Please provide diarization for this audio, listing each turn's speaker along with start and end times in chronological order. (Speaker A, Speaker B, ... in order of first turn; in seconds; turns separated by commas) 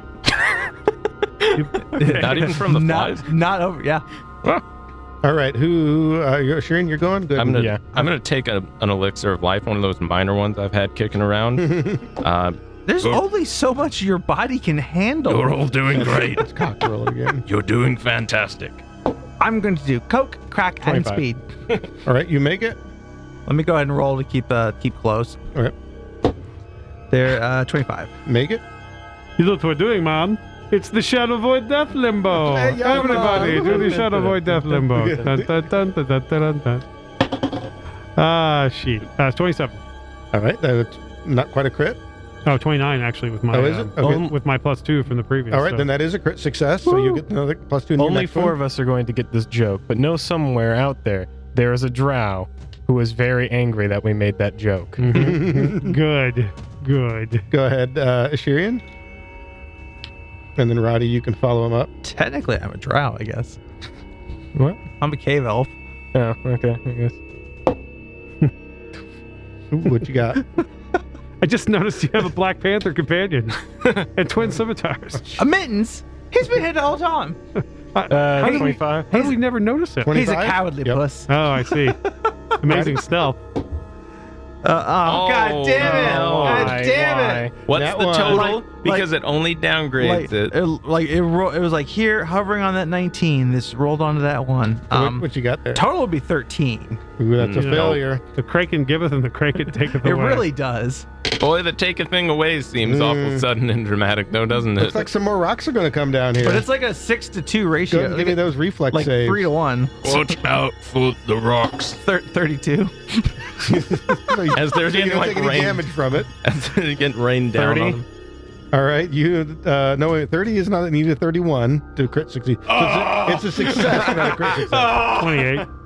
Speaker A: 1.5-2.2, Speaker B: 1.7-4.0, Speaker C: 1.9-3.3, Speaker D: 5.2-7.7, Speaker C: 7.4-13.2, Speaker E: 7.5-7.8, Speaker D: 11.6-12.0, Speaker B: 12.9-15.6, Speaker C: 15.3-16.4, Speaker D: 15.9-17.4, Speaker C: 17.4-18.8, Speaker B: 19.4-21.4, Speaker E: 20.8-21.2, Speaker D: 22.0-22.8, Speaker B: 23.4-25.4, Speaker B: 27.1-28.1, Speaker D: 28.2-28.6, Speaker A: 29.4-36.8, Speaker D: 32.3-35.5, Speaker B: 32.8-34.1, Speaker E: 33.9-34.7, Speaker A: 38.1-39.8, Speaker D: 40.3-42.0, Speaker A: 42.4-45.9, Speaker D: 43.5-44.3, Speaker E: 44.0-44.3, Speaker D: 45.5-48.6, Speaker E: 46.8-47.2, Speaker E: 48.0-55.1, Speaker A: 55.0-57.4, Speaker D: 55.1-56.0, Speaker D: 57.5-58.8, Speaker D: 60.5-61.9, Speaker B: 62.0-63.6, Speaker B: 65.0-65.7, Speaker E: 66.1-67.2, Speaker D: 69.7-70.4, Speaker A: 71.4-75.4, Speaker B: 75.3-77.4, Speaker A: 77.9-80.1, Speaker E: 78.1-79.1, Speaker B: 78.4-79.4, Speaker D: 80.0-81.0, Speaker B: 80.1-82.3, Speaker A: 81.3-82.0, Speaker A: 82.6-83.4, Speaker D: 82.7-83.0, Speaker B: 84.6-87.5, Speaker C: 85.0-86.8, Speaker D: 85.8-86.3, Speaker E: 85.8-87.5, Speaker C: 87.7-90.5, Speaker D: 87.7-88.6, Speaker B: 88.2-89.1, Speaker B: 90.0-97.0, Speaker D: 94.9-95.8, Speaker D: 97.2-98.2, Speaker C: 97.4-98.0, Speaker A: 97.6-100.5, Speaker B: 100.0-101.0, Speaker C: 101.4-105.1, Speaker D: 102.8-103.5, Speaker D: 104.8-106.7, Speaker B: 106.4-110.3, Speaker D: 107.9-109.5, Speaker C: 110.0-112.0, Speaker B: 112.0-113.7, Speaker D: 113.6-116.3, Speaker C: 114.5-115.9, Speaker C: 116.4-118.0, Speaker E: 117.6-118.0, Speaker B: 117.6-118.0, Speaker D: 118.7-125.1, Speaker E: 122.8-123.4, Speaker B: 124.7-125.5, Speaker A: 125.1-125.7